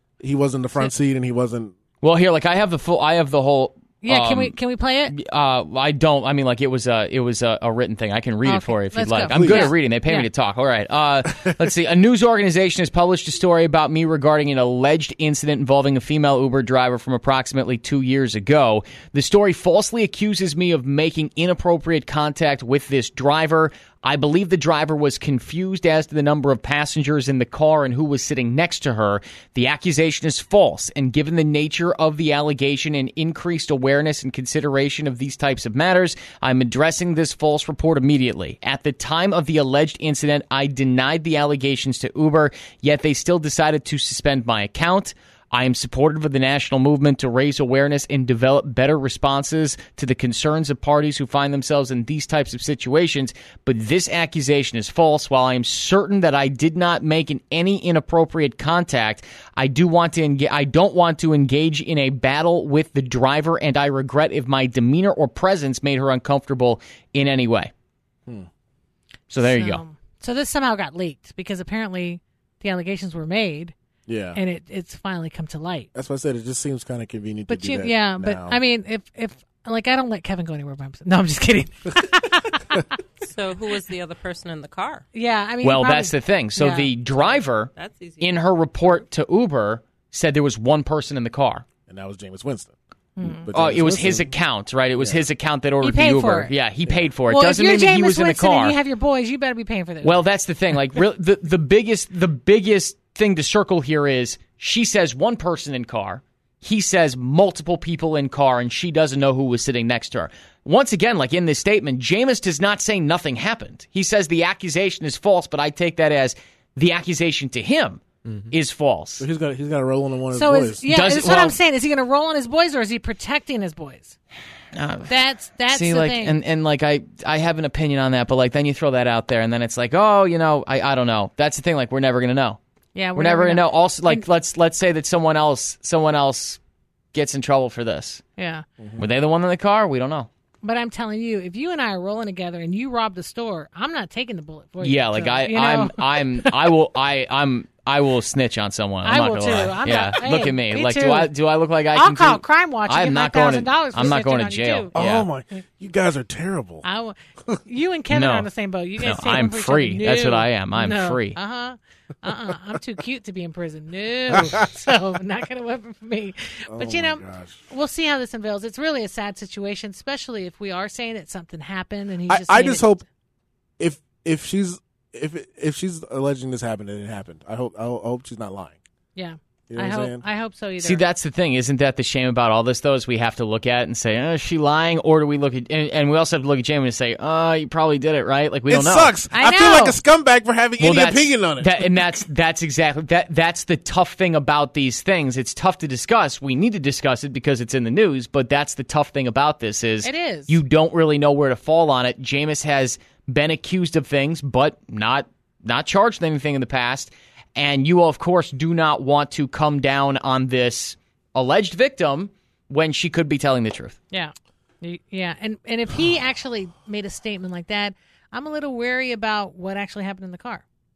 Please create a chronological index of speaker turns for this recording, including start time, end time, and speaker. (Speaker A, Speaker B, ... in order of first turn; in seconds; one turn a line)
Speaker A: 0.2-1.8
Speaker B: 2.0-4.5
Speaker C: 4.0-5.1
Speaker B: 5.1-67.7
Speaker C: 8.4-10.3
Speaker A: 9.3-9.7
Speaker B: 69.3-69.8
Speaker C: 69.4-73.7
Speaker A: 74.1-74.4
Speaker C: 74.3-75.9
Speaker A: 75.9-78.6
Speaker C: 77.5-82.9
Speaker D: 83.2-85.0
Speaker C: 85.1-86.9
Speaker B: 85.6-87.7
Speaker D: 87.1-88.5
Speaker B: 88.2-91.6
Speaker A: 91.9-94.3
Speaker C: 93.2-93.5
Speaker B: 93.5-98.8
Speaker A: 95.0-95.3
Speaker C: 95.8-96.5
Speaker C: 97.3-100.2
Speaker B: 100.0-119.3
Speaker A: 119.2-120.9
Speaker C: 120.3-124.2
Speaker B: 120.9-121.5
Speaker B: 124.7-125.1
Speaker C: 125.1-126.4
Speaker B: 125.7-132.6
Speaker C: 132.9-134.2
Speaker B: 133.2-136.6
Speaker B: 137.1-138.2
Speaker C: 138.4-138.6
Speaker B: 139.0-140.3
Speaker C: 140.6-146.6
Speaker B: 144.8-155.3
Speaker C: 149.0-151.3
Speaker C: 151.9-154.9
Speaker A: 154.9-156.8
Speaker C: 156.8-172.9
Speaker B: 158.1-161.4
Speaker A: 164.3-164.6
Speaker A: 166.7-167.6
Speaker A: 172.3-173.0
Speaker A: 173.8-178.8
Speaker C: 179.1-181.0
Speaker A: 179.7-180.2
Speaker B: 180.8-189.1
Speaker A: 188.7-191.8
Speaker C: 189.3-190.0
Speaker B: 190.8-214.0
Speaker C: 200.0-200.6
Speaker C: 214.1-220.6